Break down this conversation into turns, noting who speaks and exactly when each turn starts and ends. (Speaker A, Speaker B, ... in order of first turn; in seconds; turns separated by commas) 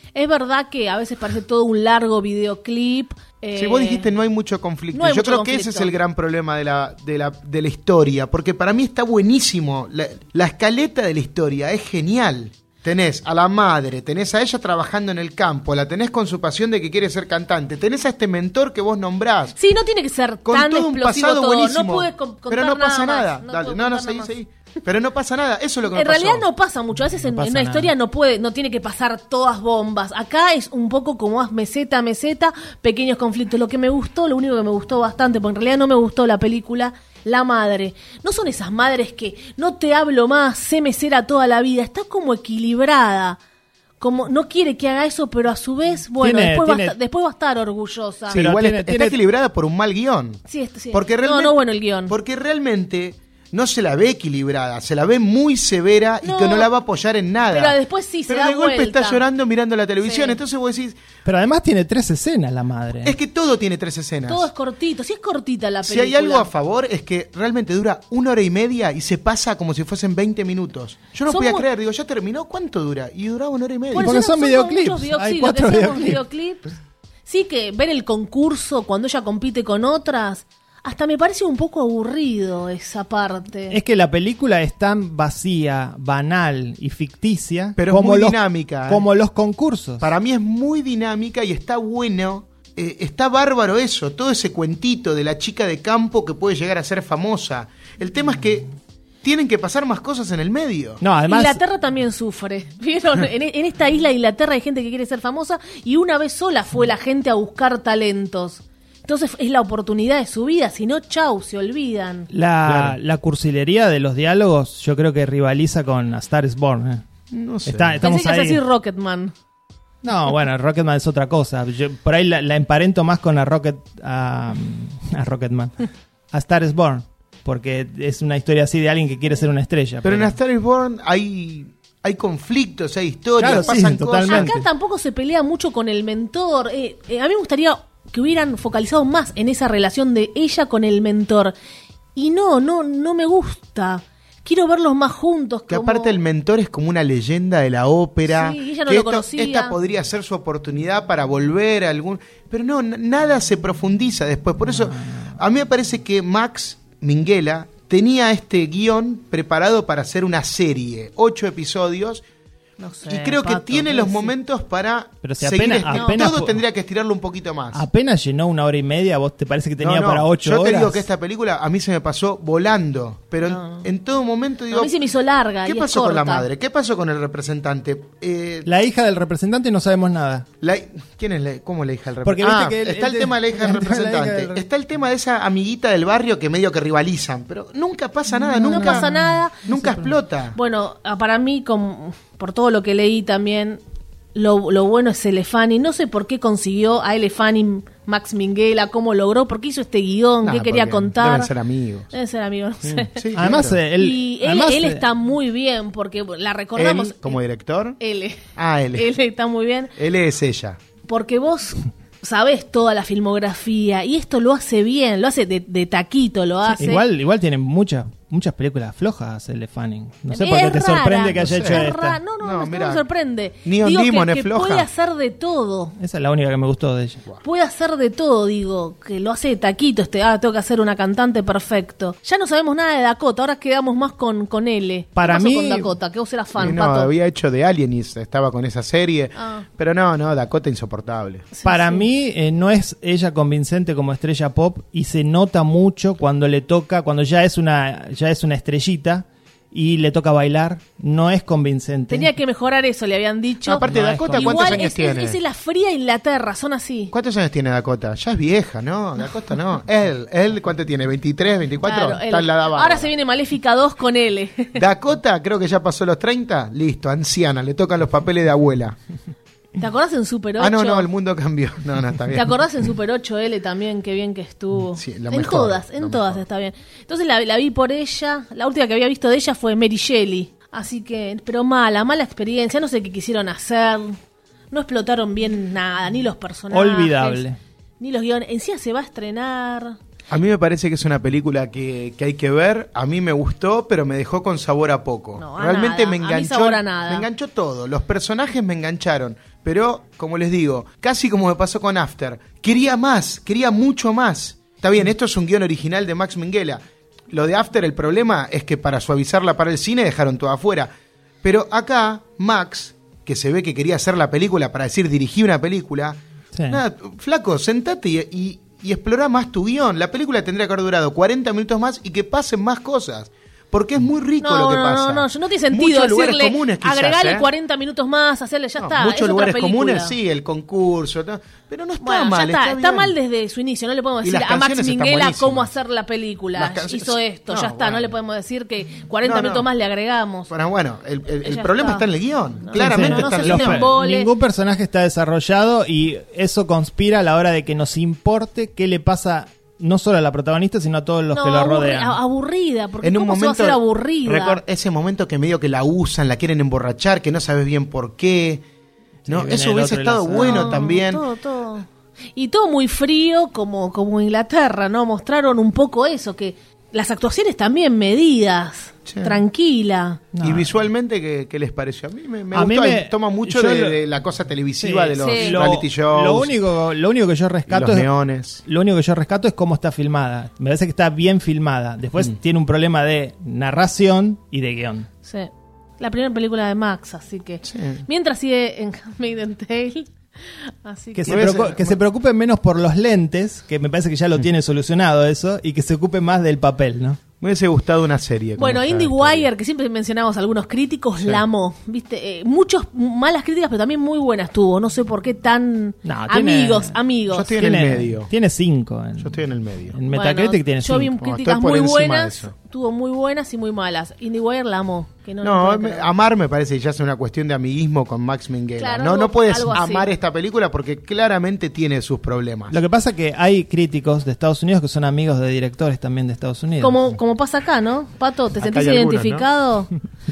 Speaker A: 0.1-4.1, Speaker B: 3.6-19.6, Speaker A: 4.9-5.9, Speaker A: 19.6-24.3, Speaker B: 20.5-26.5, Speaker A: 25.9-43.4, Speaker C: 27.2-27.9, Speaker A: 44.0-48.4, Speaker C: 46.2-47.0, Speaker B: 48.3-50.4, Speaker C: 48.3-49.2, Speaker A: 50.5-52.1, Speaker B: 50.9-57.8, Speaker A: 56.2-56.7, Speaker A: 57.5-59.3, Speaker B: 58.3-61.0, Speaker A: 60.0-60.4, Speaker C: 61.2-63.2, Speaker B: 63.0-64.5, Speaker A: 64.3-66.5, Speaker B: 65.8-74.2, Speaker A: 71.3-71.7, Speaker A: 73.9-76.6, Speaker C: 74.0-76.2, Speaker A: 77.3-83.8, Speaker C: 83.7-90.1, Speaker B: 87.8-89.1, Speaker B: 90.0-98.7, Speaker B: 99.2-101.0, Speaker C: 101.0-101.6, Speaker A: 101.3-112.3, Speaker C: 112.3-117.0, Speaker B: 112.7-113.0, Speaker B: 117.3-118.0, Speaker C: 117.7-118.6, Speaker A: 118.0-119.3, Speaker C: 120.0-130.4, Speaker B: 130.0-134.5, Speaker C: 133.4-134.7, Speaker A: 134.2-141.5, Speaker A: 142.2-146.2, Speaker B: 145.7-162.2, Speaker A: 148.3-149.8, Speaker C: 155.0-155.3, Speaker A: 162.8-164.3, Speaker B: 163.0-167.8, Speaker C: 165.2-166.6, Speaker A: 165.9-166.3, Speaker C: 167.7-171.0, Speaker B: 169.8-174.9, Speaker A: 173.4-173.9, Speaker A: 174.7-176.5, Speaker B: 175.7-178.7, Speaker C: 178.7-180.5, Speaker B: 180.6-189.1, Speaker C: 182.2-184.6, Speaker C: 188.6-190.1, Speaker A: 188.7-189.8, Speaker B: 189.6-190.6, Speaker A: 190.6-193.8, Speaker A: 194.3-201.5, Speaker B: 200.4-202.1, Speaker A: 202.1-207.4, Speaker B: 202.8-203.8, Speaker C: 203.3-205.0, Speaker B: 206.8-208.0, Speaker A: 208.0-209.9, Speaker B: 208.6-209.1, Speaker B: 210.0-210.8, Speaker A: 211.1-217.0, Speaker C: 216.7-222.2, Speaker A: 220.3-226.0, Speaker B: 221.4-223.0, Speaker B: 223.7-224.9, Speaker C: 226.0-227.2, Speaker A: 227.4-237.1, Speaker C: 235.2-235.9, Speaker B: 236.6-241.5, Speaker A: 239.4-239.7, Speaker A: 241.5-242.1, Speaker C: 241.6-252.3, Speaker A: 252.1-257.1, Speaker B: 253.7-255.4, Speaker C: 253.8-254.8, Speaker B: 257.1-263.1, Speaker A: 261.8-264.8, Speaker B: 264.8-269.0, Speaker A: 269.8-271.1, Speaker B: 270.6-272.6, Speaker A: 272.3-284.2, Speaker B: 274.9-276.4, Speaker A: 284.7-287.4, Speaker C: 286.7-287.6, Speaker A: 288.0-290.0, Speaker B: 290.3-310.9, Speaker A: 295.4-297.3, Speaker B: 311.4-327.5, Speaker C: 316.5-316.8, Speaker A: 324.4-330.1, Speaker B: 328.8-333.1, Speaker A: 332.0-340.5, Speaker B: 334.2-335.7, Speaker B: 336.6-338.1, Speaker B: 339.2-339.7, Speaker B: 340.5-343.9, Speaker A: 341.4-342.1, Speaker A: 342.6-344.3, Speaker C: 342.8-352.2, Speaker A: 351.3-354.6, Speaker B: 353.0-358.6, Speaker C: 359.2-360.7, Speaker B: 359.3-361.2, Speaker A: 360.4-370.3, Speaker B: 369.1-369.4, Speaker C: 370.3-370.7, Speaker B: 370.4-376.6, Speaker C: 372.5-374.0, Speaker C: 374.8-378.1, Speaker A: 375.2-375.7, Speaker B: 377.7-378.6, Speaker C: 378.6-385.1, Speaker A: 385.2-390.1, Speaker B: 387.7-388.0, Speaker A: 390.8-391.7, Speaker C: 391.1-397.2, Speaker B: 391.3-392.0, Speaker B: 397.4-399.5, Speaker A: 398.6-407.6, Speaker C: 406.1-407.0, Speaker B: 407.3-408.3, Speaker C: 407.6-409.4, Speaker B: 409.2-410.0, Speaker C: 409.9-411.2, Speaker A: 410.1-416.1, Speaker B: 411.2-412.5, Speaker B: 415.4-422.8, Speaker A: 418.8-420.1, Speaker C: 422.7-427.0, Speaker A: 426.8-429.9, Speaker B: 428.6-429.5